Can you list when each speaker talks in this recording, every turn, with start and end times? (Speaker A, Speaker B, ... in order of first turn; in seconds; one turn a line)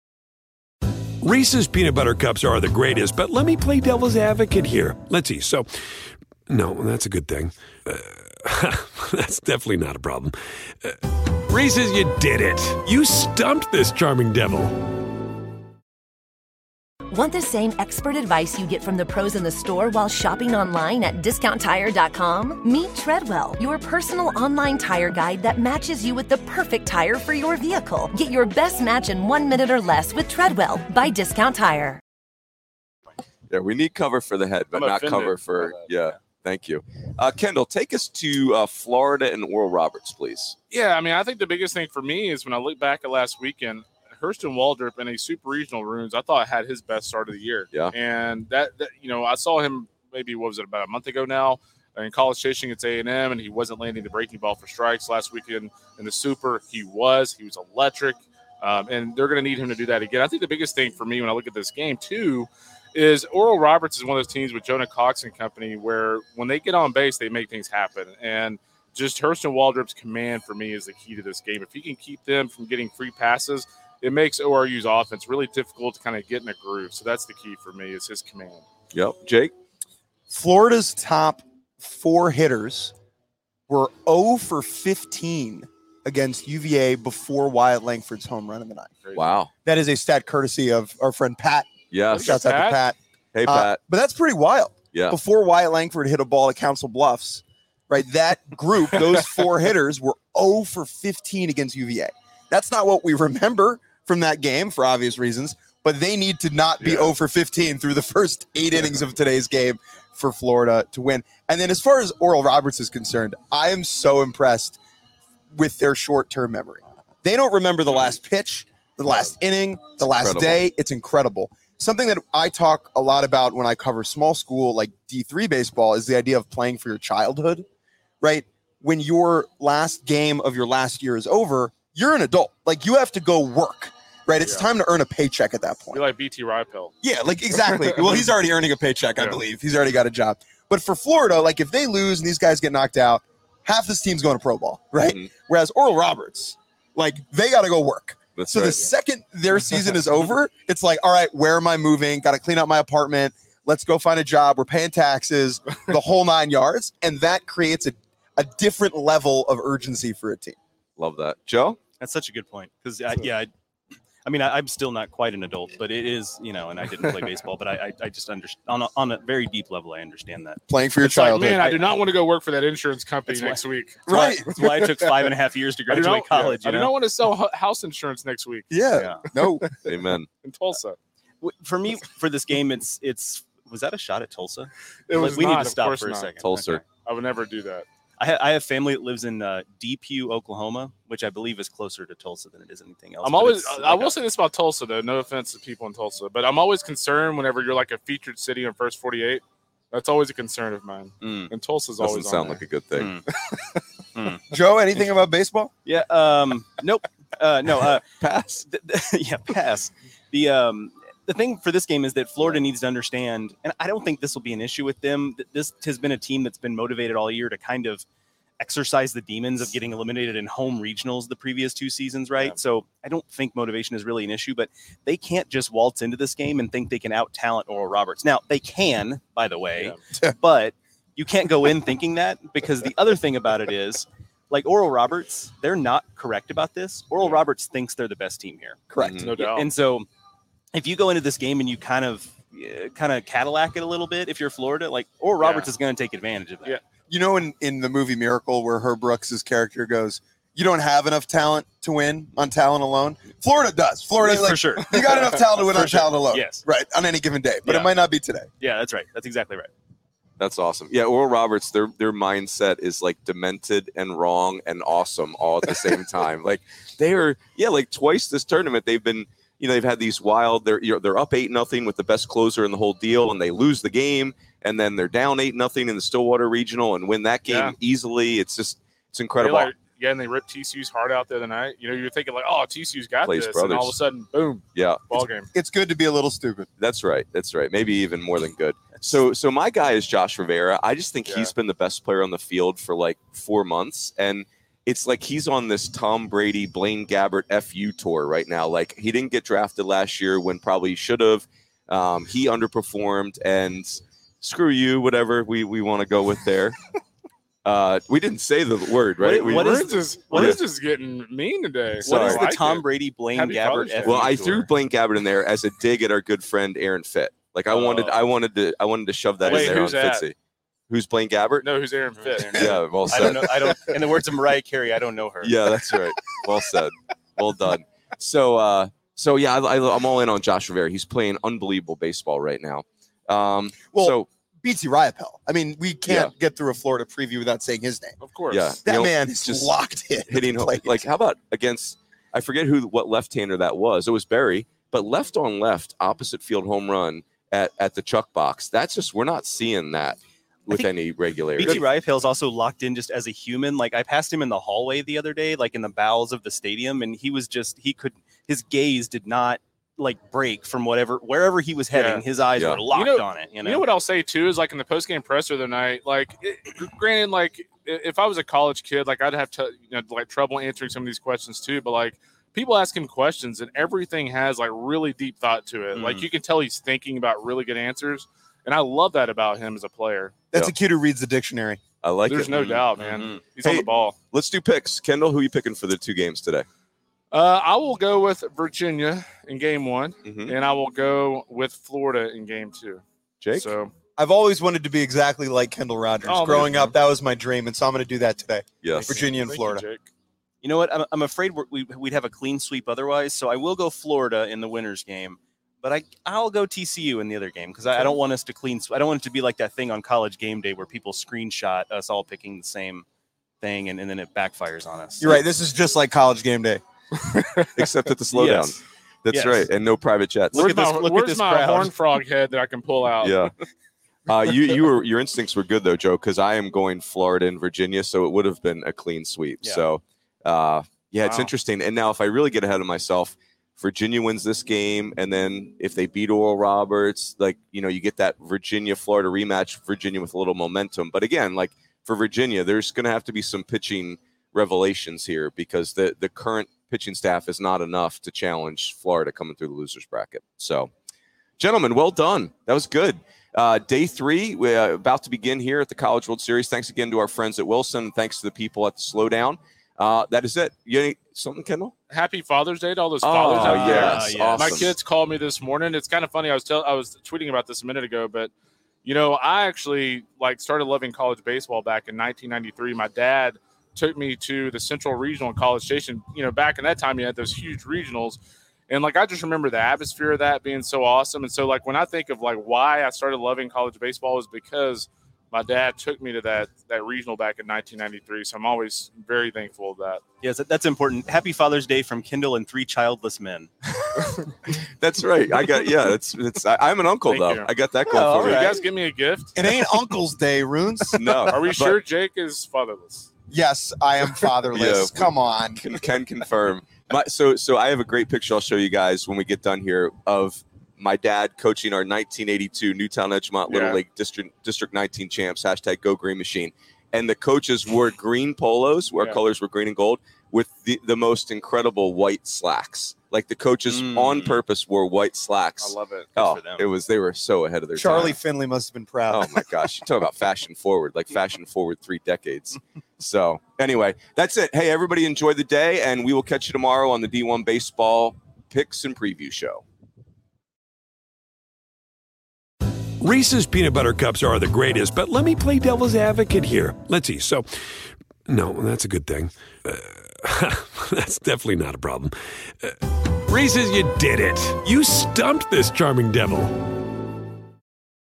Speaker A: 1.2-5.7
Speaker A: 6.5-14.7
Speaker B: 17.1-32.0
Speaker C: 33.5-40.6
Speaker D: 34.7-35.9
Speaker D: 40.7-78.6
Speaker C: 78.9-79.5
Speaker E: 80.3-82.9
Speaker E: 83.7-88.9
Speaker D: 89.0-89.4
Speaker C: 89.1-89.5
Speaker E: 89.6-114.8
Speaker C: 91.9-92.4
Speaker D: 92.1-92.8
Speaker C: 93.3-93.8
Speaker C: 94.9-95.2
Speaker E: 115.5-127.6
Speaker C: 120.0-120.6
Speaker E: 128.2-136.0
Speaker D: 134.4-134.7
Speaker D: 135.9-136.9
Speaker E: 137.0-160.6
Speaker D: 137.8-138.2
Speaker C: 145.0-145.3
Speaker C: 148.4-148.9
Speaker C: 161.0-161.8
Speaker F: 162.0-163.5
Speaker F: 164.2-170.6
Speaker E: 170.7-171.6
Speaker D: 171.0-174.1
Speaker F: 171.6-171.9
Speaker F: 173.3-176.9
Speaker E: 174.1-174.5
Speaker D: 175.9-178.8
Speaker E: 178.7-179.7
Speaker F: 178.9-179.2
Speaker D: 179.7-181.0
Speaker C: 179.8-180.3
Speaker F: 181.4-186.9
Speaker D: 185.1-187.9
Speaker C: 186.4-186.9
Speaker F: 188.2-194.2
Speaker D: 193.2-202.6
Speaker F: 201.2-201.5
Speaker C: 202.0-203.1
Speaker F: 202.9-203.2
Speaker F: 204.1-205.1
Speaker E: 204.5-205.7
Speaker F: 205.8-208.0
Speaker C: 208.2-208.6
Speaker F: 208.6-218.0
Speaker F: 218.6-240.1
Speaker E: 238.9-239.3
Speaker C: 239.0-239.3
Speaker D: 239.2-239.7
Speaker F: 240.7-246.8
Speaker D: 245.4-245.7
Speaker E: 247.1-258.5
Speaker F: 254.2-256.6
Speaker F: 257.6-257.9
Speaker F: 258.6-259.7
Speaker C: 260.4-279.7
Speaker D: 277.4-277.8
Speaker D: 279.4-285.5
Speaker C: 283.2-284.0
Speaker C: 284.8-285.2
Speaker E: 285.5-286.7
Speaker C: 286.8-306.8
Speaker D: 291.2-291.5
Speaker C: 307.6-309.8
Speaker F: 309.2-310.6
Speaker D: 309.5-314.3
Speaker C: 310.3-310.6
Speaker F: 312.0-314.7
Speaker C: 312.1-312.4
Speaker C: 314.0-320.4
Speaker D: 317.7-318.2
Speaker D: 319.4-320.3
Speaker C: 320.9-321.7
Speaker D: 321.6-322.8
Speaker F: 322.2-325.7
Speaker C: 322.4-323.8
Speaker C: 325.4-334.3
Speaker E: 333.9-338.2
Speaker C: 336.1-336.3
Speaker D: 338.2-338.8
Speaker C: 338.5-339.8
Speaker E: 338.9-341.1
Speaker C: 340.3-351.8
Speaker F: 351.6-363.8
Speaker D: 361.9-362.3
Speaker C: 362.6-362.9
Speaker D: 362.8-380.4
Speaker F: 375.9-376.3
Speaker E: 380.5-381.8
Speaker C: 382.0-382.6
Speaker D: 382.3-384.1
Speaker F: 382.5-383.5
Speaker C: 383.6-386.6
Speaker D: 387.3-393.0
Speaker C: 390.2-390.6
Speaker C: 393.4-393.7
Speaker D: 393.5-393.9
Speaker E: 394.2-399.9
Speaker D: 396.2-396.9
Speaker C: 398.8-399.2
Speaker D: 399.1-400.1
Speaker F: 400.6-413.1
Speaker F: 413.6-415.5
Speaker E: 415.2-416.8
Speaker D: 417.2-417.7
Speaker C: 417.7-420.7
Speaker F: 418.3-419.7
Speaker F: 420.5-421.9
Speaker D: 420.5-423.5
Speaker C: 423.2-423.5
Speaker C: 424.3-450.9
Speaker F: 429.6-429.9
Speaker D: 431.2-431.5
Speaker C: 451.6-461.9
Speaker D: 462.1-468.5
Speaker C: 463.2-464.9
Speaker F: 463.5-464.9
Speaker D: 469.0-490.2
Speaker F: 490.4-494.3
Speaker C: 495.0-498.7
Speaker D: 497.2-497.7
Speaker F: 498.1-498.9
Speaker D: 498.4-499.7
Speaker E: 499.6-501.5
Speaker C: 501.1-502.0
Speaker D: 501.4-503.3
Speaker E: 503.5-505.8
Speaker C: 504.7-528.4
Speaker D: 513.6-514.0
Speaker F: 523.9-524.6
Speaker D: 525.8-526.4
Speaker F: 526.4-526.9
Speaker E: 527.9-529.6
Speaker C: 529.3-539.8
Speaker A: 543.2-547.6
Speaker A: 548.5-556.7